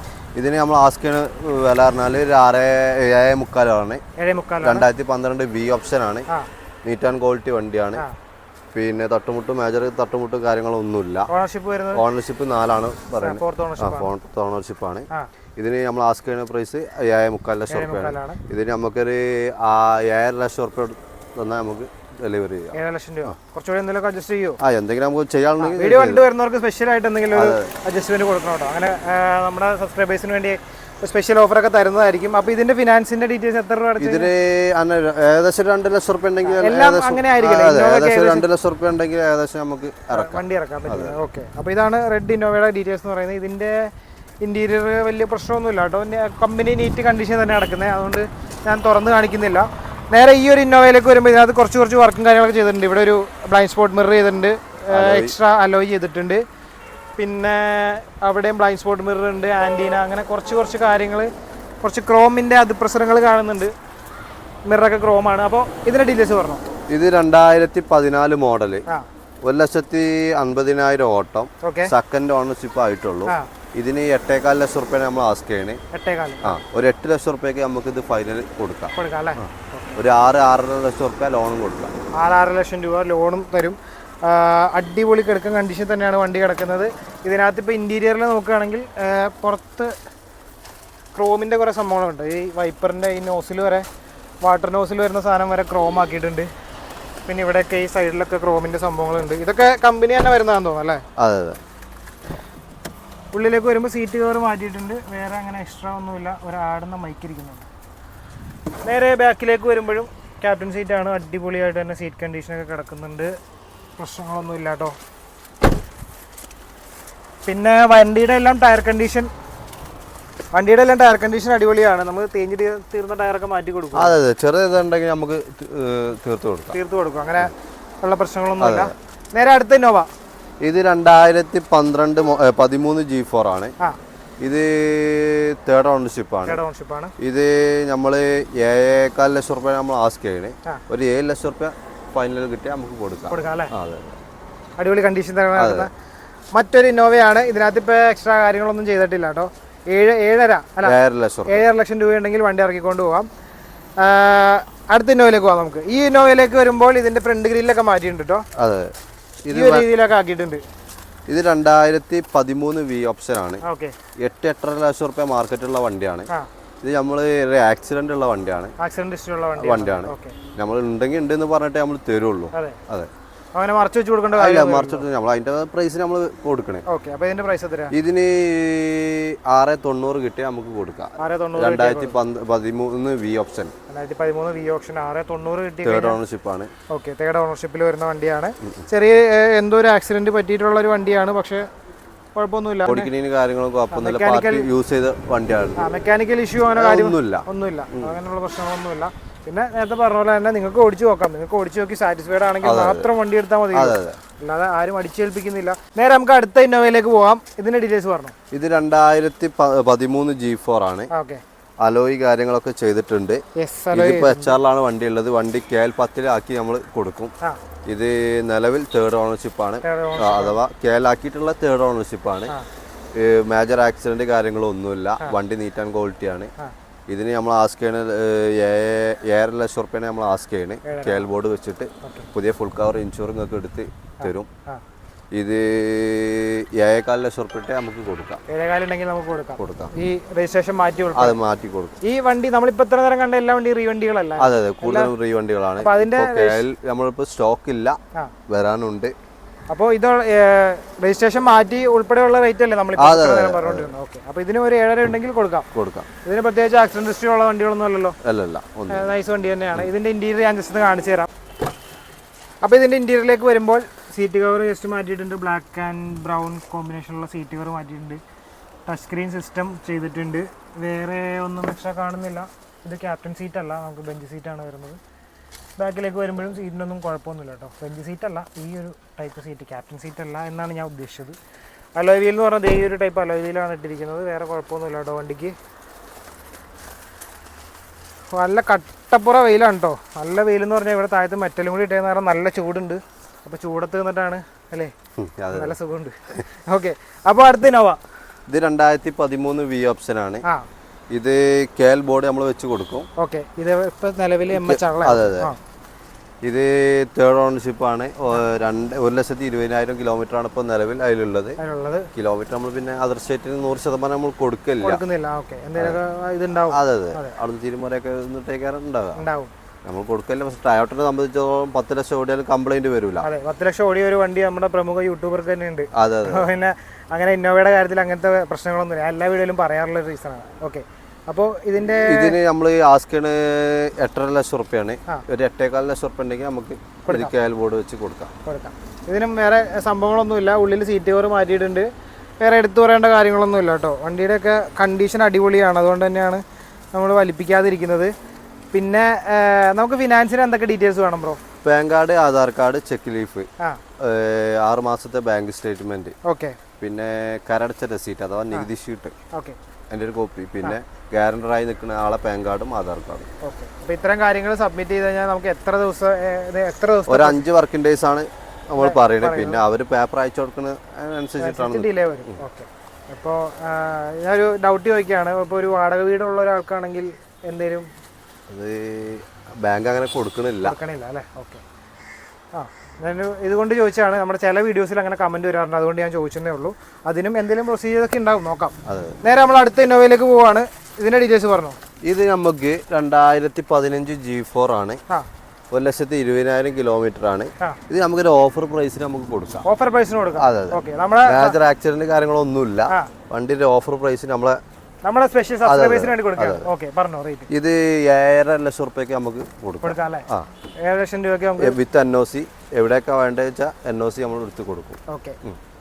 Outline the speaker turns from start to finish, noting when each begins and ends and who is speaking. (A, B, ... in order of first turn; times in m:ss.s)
0:00.4-0:04.0 A
0:04.2-0:04.9 B
0:04.6-0:06.2 A
0:06.8-0:08.0 A
0:08.7-0:11.3 A
0:11.3-0:12.0 B
0:11.9-0:15.1 A
0:13.2-0:14.1 B
0:15.6-0:23.3 A
0:17.7-0:18.4 B
0:22.7-0:24.6 B
0:24.6-0:26.2 A
0:25.6-0:34.3 B
0:27.3-0:27.7 A
0:34.0-0:41.2 A
0:36.4-0:38.4 B
0:40.1-0:56.4 B
0:54.9-0:55.3 A
0:57.2-1:01.3 B
1:01.8-1:03.7 B
1:04.7-1:06.6 B
1:06.9-1:08.8 A
1:09.4-1:15.8 A
1:11.6-1:11.9 B
1:15.9-1:16.6 B
1:16.4-1:21.9 A
1:18.9-1:20.0 B
1:22.2-1:29.9 B
1:31.1-1:33.8 B
1:34.4-1:36.5 B
1:37.3-1:41.0 B
1:41.2-1:41.6 A
1:43.3-1:47.7 B
1:48.8-1:53.3 B
1:54.0-1:55.0 B
1:57.4-1:59.3 B
2:00.5-2:04.2 B
2:03.9-2:06.8 A
2:06.7-2:10.1 B
2:08.6-2:08.9 A
2:10.6-2:13.7 A
2:14.4-2:16.6 A
2:16.4-2:17.1 B
2:17.2-2:24.2 A
2:23.3-2:23.7 B
2:24.8-2:25.9 B
2:25.6-2:25.9 A
2:26.5-2:31.0 B
2:30.8-2:31.6 A
2:31.5-2:33.3 B
2:34.0-2:38.4 B
2:38.6-2:38.9 A
2:39.4-2:39.8 A
2:39.5-2:40.6 B
2:41.3-2:43.6 A
2:43.6-2:43.9 B
2:44.2-2:46.3 A
2:46.8-2:48.7 A
2:48.8-2:50.4 B
2:49.6-2:53.1 A
2:52.5-2:52.8 B
2:53.5-2:55.1 B
2:54.4-2:56.8 A
2:56.9-2:57.9 B
2:57.9-3:03.7 A
3:01.2-3:02.2 B
3:03.9-3:06.2 B
3:05.8-3:06.7 A
3:06.9-3:11.6 B
3:12.3-3:13.1 B
3:12.8-3:15.8 A
3:13.9-3:14.7 B
3:15.8-3:28.3 B
3:16.7-3:18.2 A
3:22.6-3:23.1 A
3:23.7-3:24.2 A
3:28.5-3:31.1 A
3:31.1-3:31.4 B
3:31.8-3:37.3 A
3:33.6-3:34.5 B
3:37.9-3:42.5 A
3:39.8-3:40.6 B
3:43.1-3:46.5 A
3:47.1-3:54.5 A
3:50.8-3:51.3 B
3:52.0-3:52.3 B
3:54.2-3:54.8 B
3:55.3-3:58.4 A
3:58.5-4:01.4 B
3:59.6-3:59.9 A
4:01.2-4:02.0 A
4:02.0-4:05.1 B
4:04.4-4:08.0 A
4:05.8-4:06.6 B
4:08.5-4:09.1 A
4:09.7-4:15.7 B
4:13.0-4:13.9 A
4:15.7-4:16.1 A
4:16.2-4:18.2 B
4:18.2-4:19.1 A
4:18.9-4:21.3 B
4:22.6-4:28.2 B
4:28.8-4:35.0 B
4:35.8-4:41.4 B
4:42.0-4:45.6 B
4:48.3-4:54.9 B
4:55.2-4:55.8 A
4:55.5-4:58.0 B
4:58.5-5:00.4 A
5:01.1-5:03.1 A
5:03.2-5:05.6 B
5:04.5-5:05.5 A
5:06.4-5:11.6 A
5:11.6-5:12.1 B
5:12.1-5:15.0 A
5:14.8-5:17.3 B
5:16.7-5:19.2 A
5:19.2-5:19.5 B
5:19.8-5:23.3 A
5:23.2-5:32.4 B
5:25.9-5:26.5 A
5:32.0-5:38.3 A
5:37.0-5:37.3 B
5:38.4-5:41.9 B
5:42.4-5:46.4 B
5:46.9-5:48.1 B
5:48.7-5:51.4 B
5:51.6-5:53.5 A
5:54.0-5:56.1 A
5:56.2-5:56.6 B
5:56.8-5:59.1 A
5:59.3-5:59.6 B
5:59.9-6:03.3 A
6:03.4-6:07.4 B
6:07.1-6:12.4 A
6:08.8-6:09.6 B
6:11.4-6:17.9 B
6:18.5-6:20.8 A
6:20.6-6:21.6 B
6:22.5-6:31.8 B
6:28.8-6:29.2 A
6:32.0-6:35.0 A
6:35.7-6:39.6 A
6:39.6-6:41.6 B
6:40.4-6:44.6 A
6:45.0-6:47.5 B
6:45.6-6:46.7 A
6:47.5-6:50.5 A
6:49.8-6:50.3 B
6:50.8-6:51.8 B
6:51.6-6:55.6 A
6:55.1-6:55.4 B